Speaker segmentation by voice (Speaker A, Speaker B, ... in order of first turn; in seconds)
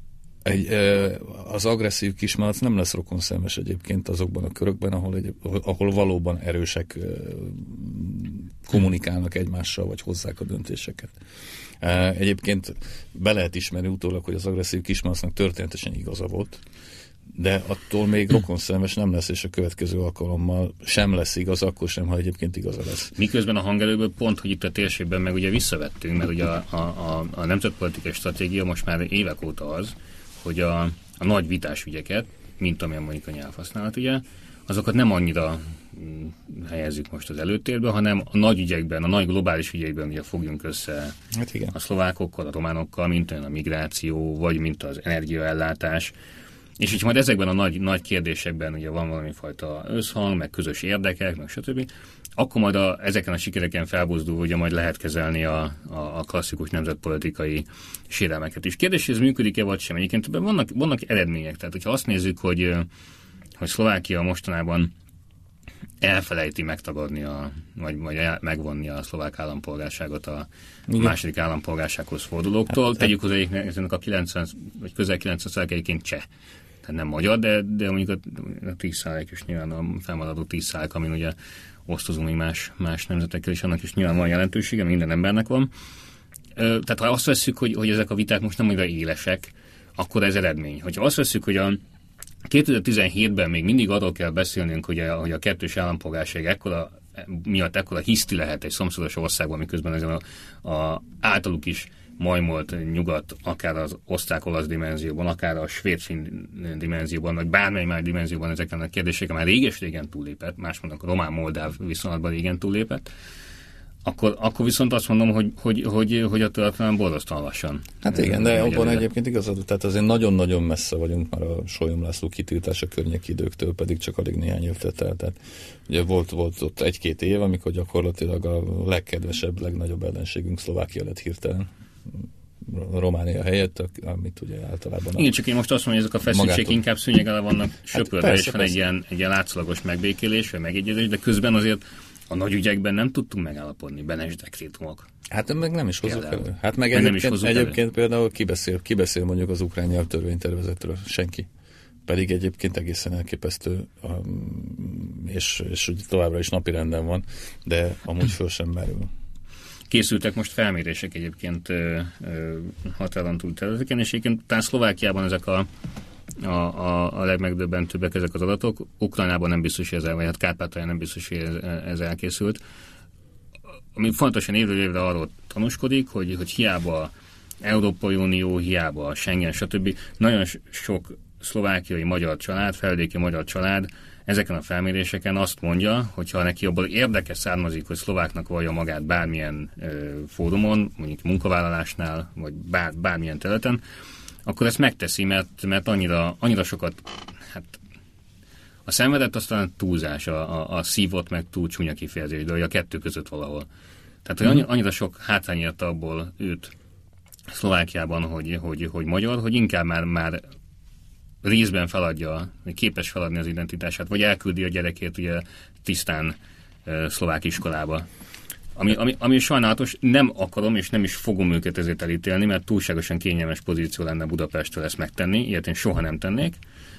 Speaker A: 0.4-11.1, 11.8-16.6, 17.3-23.1, 41.3-41.7, 118.0-135.3, 136.3-136.8, 137.9-138.8, 145.3-151.5, 152.1-159.1
Speaker B: 23.2-41.2, 41.7-46.1, 46.8-62.9, 63.6-64.9, 66.0-76.3, 76.8-81.3, 81.9-85.7, 86.6-91.8, 92.5-113.1, 114.0-119.1, 135.2-145.1, 146.0-147.8, 159.9-165.7, 166.4-172.6, 173.9-193.8, 194.5-197.8, 198.9-203.7, 204.2-206.7, 207.5-210.4, 211.4-218.1, 218.8-226.6